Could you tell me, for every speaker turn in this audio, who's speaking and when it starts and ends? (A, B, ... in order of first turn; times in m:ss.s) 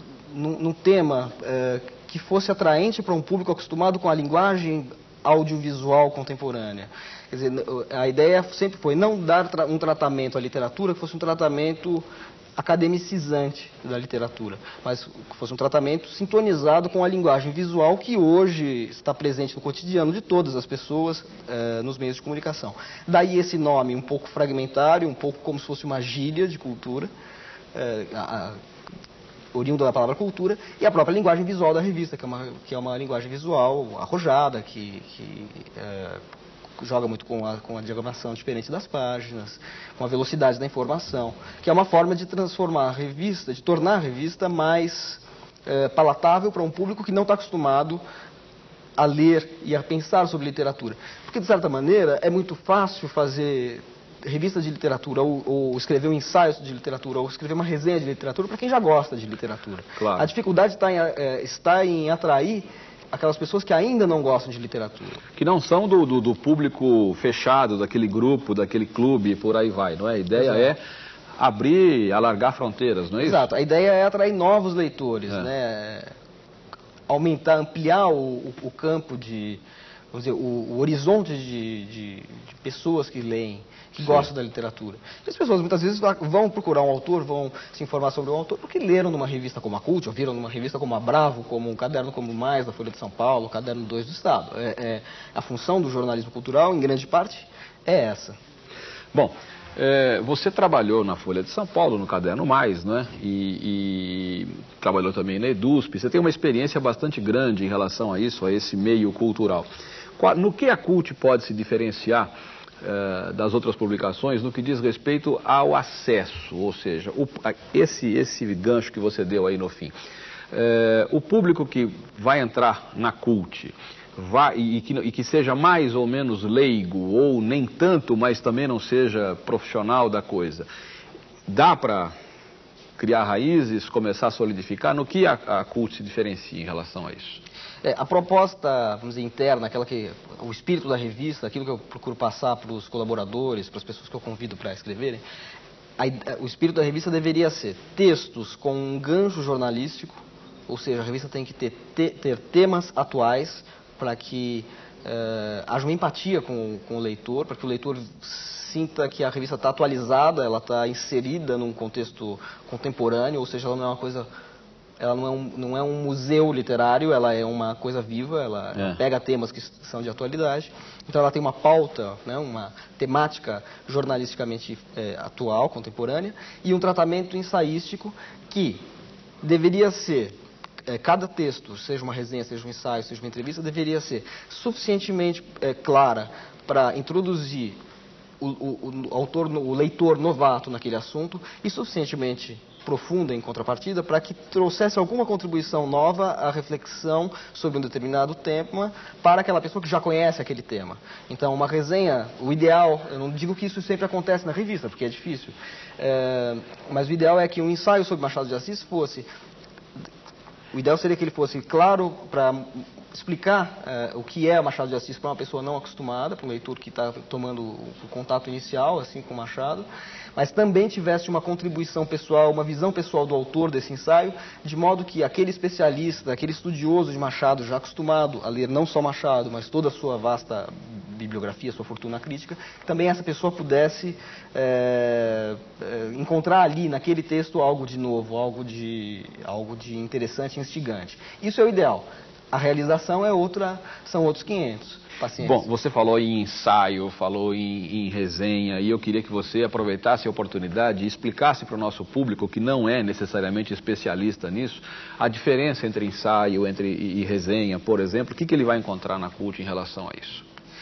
0:00.3-0:27.1 A
0:27.7-0:28.6 A
0:29.5-0:36.2 A
0:36.8-0:48.0 A
0:49.0-1:05.2 A
1:00.0-1:00.3 B
1:05.4-1:10.8 B
1:10.4-1:10.7 A
1:11.4-1:13.5 B
1:13.2-1:16.1 A
1:17.1-1:38.4 A
1:24.0-1:24.3 B
1:39.1-1:52.3 B
1:52.8-1:59.9 B
2:00.5-2:10.7 B
2:11.5-2:12.1 B
2:13.0-2:17.4 B
2:17.8-2:25.2 A
2:26.0-2:44.3 A
2:45.0-2:58.8 A
2:48.8-2:49.0 B
2:59.4-3:07.8 A
3:08.4-3:29.3 A
3:30.7-4:05.6 A
4:05.4-4:20.4 B